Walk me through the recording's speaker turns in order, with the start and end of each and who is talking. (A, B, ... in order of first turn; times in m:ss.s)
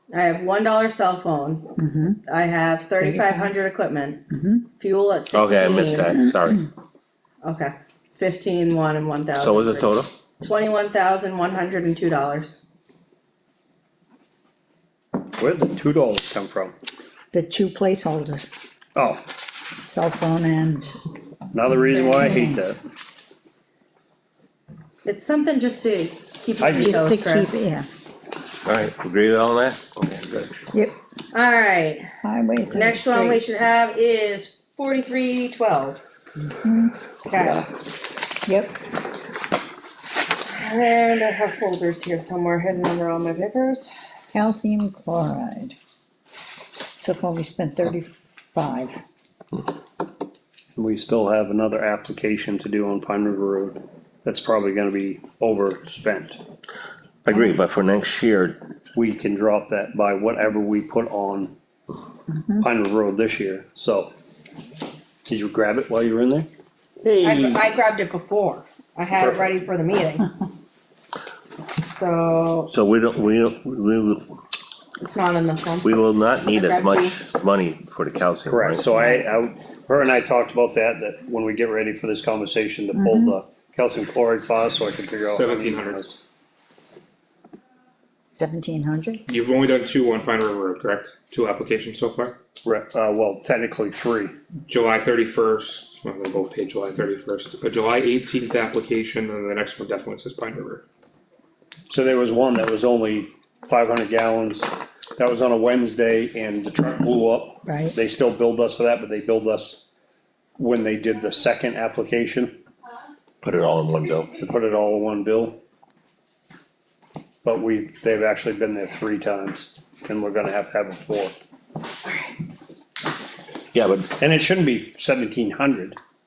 0:00.1-0:04.2 A
0:01.8-0:02.2 B
0:03.0-0:03.5 B
0:04.3-0:04.7 B
0:04.8-0:06.1 A
0:05.3-0:06.6 C
0:07.4-0:12.6 A
0:09.4-0:10.1 C
0:15.4-0:16.8 D
0:17.3-0:18.5 B
0:19.0-0:19.2 D
0:19.8-0:21.0 B
0:21.5-0:22.8 D
0:21.6-0:22.7 B
0:21.9-0:22.4 A
0:25.0-0:27.6 A
0:26.6-0:26.9 D
0:26.8-0:27.9 B
0:28.7-0:30.6 C
0:31.3-0:32.1 A
0:32.2-0:33.7 B
0:32.7-0:36.0 A
0:36.6-0:37.6 B
0:37.3-0:37.7 A
0:38.5-0:38.8 B
0:40.4-0:43.9 A
0:44.3-0:45.8 B
0:47.0-0:48.9 B
0:50.8-0:56.4 D
0:57.2-0:58.6 C
0:58.9-1:01.5 D
1:02.6-1:04.1 D
1:05.3-1:06.5 D
1:07.0-1:07.6 D
1:07.2-1:10.3 A
1:09.2-1:09.5 E
1:11.9-1:12.7 A
1:12.7-1:14.3 C
1:15.0-1:17.2 A
1:15.8-1:18.9 C
1:18.5-1:26.2 D
1:22.9-1:23.4 B
1:25.2-1:26.0 E
1:28.3-1:29.2 B
1:29.3-1:32.4 E
1:32.6-1:34.4 D
1:34.7-1:40.8 E
1:41.9-1:49.8 D
1:47.6-1:48.0 B
1:50.6-1:52.6 D
1:53.4-1:54.3 C
1:54.4-1:55.6 D
1:57.4-2:01.4 D
2:02.0-2:02.3 A
2:03.7-2:04.2 C
2:04.2-2:06.0 D